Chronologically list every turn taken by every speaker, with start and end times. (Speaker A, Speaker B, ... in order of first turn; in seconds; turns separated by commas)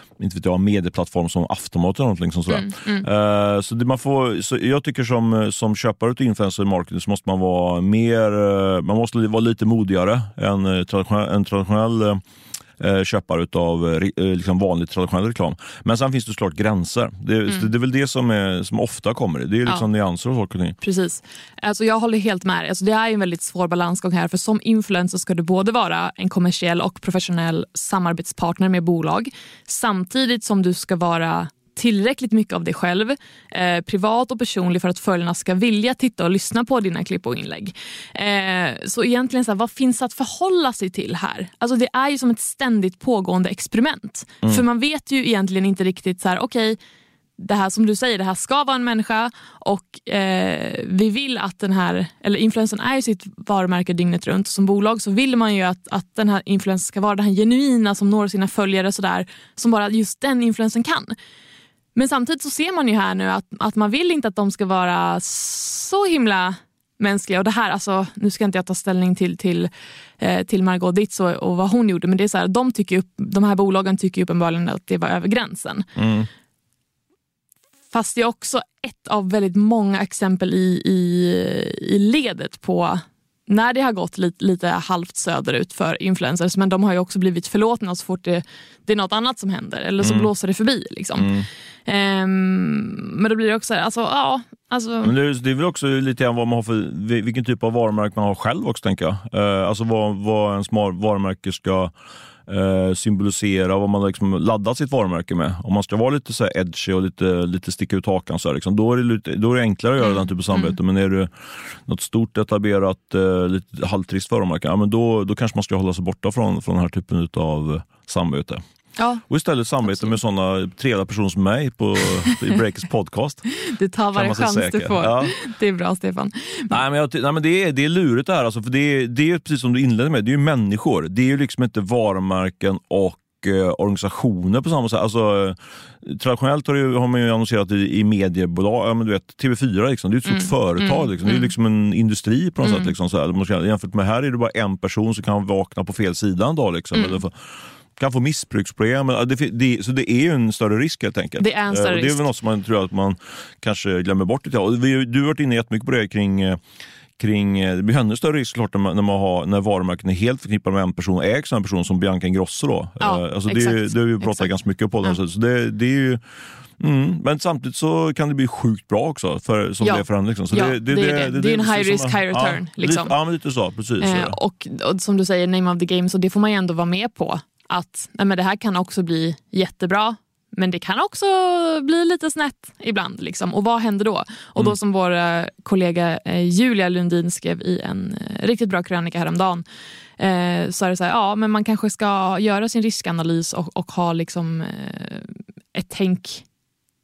Speaker A: 0.2-12.2, Speaker B: 2.5-3.1, Speaker A: 12.8-20.8, Speaker B: 20.8-46.8, Speaker B: 47.4-61.1, Speaker B: 62.0-75.9, Speaker A: 76.0-76.3, Speaker B: 77.9-91.3, Speaker A: 90.0-90.3, Speaker A: 91.2-91.5, Speaker B: 91.9-95.1, Speaker A: 95.0-101.9, Speaker A: 102.5-111.3, Speaker B: 110.0-110.8, Speaker A: 111.9-118.6, Speaker B: 119.0-119.2, Speaker A: 119.3-123.4, Speaker B: 119.9-120.2, Speaker B: 123.6-126.8, Speaker A: 124.1-125.3, Speaker A: 126.7-147.4, Speaker B: 140.3-141.5, Speaker B: 142.6-142.9, Speaker A: 148.0-156.6, Speaker B: 151.4-152.3, Speaker A: 157.2-166.2, Speaker B: 163.0-164.5, Speaker A: 166.8-174.4, Speaker B: 169.8-173.1, Speaker B: 174.0-189.7, Speaker B: 190.2-196.5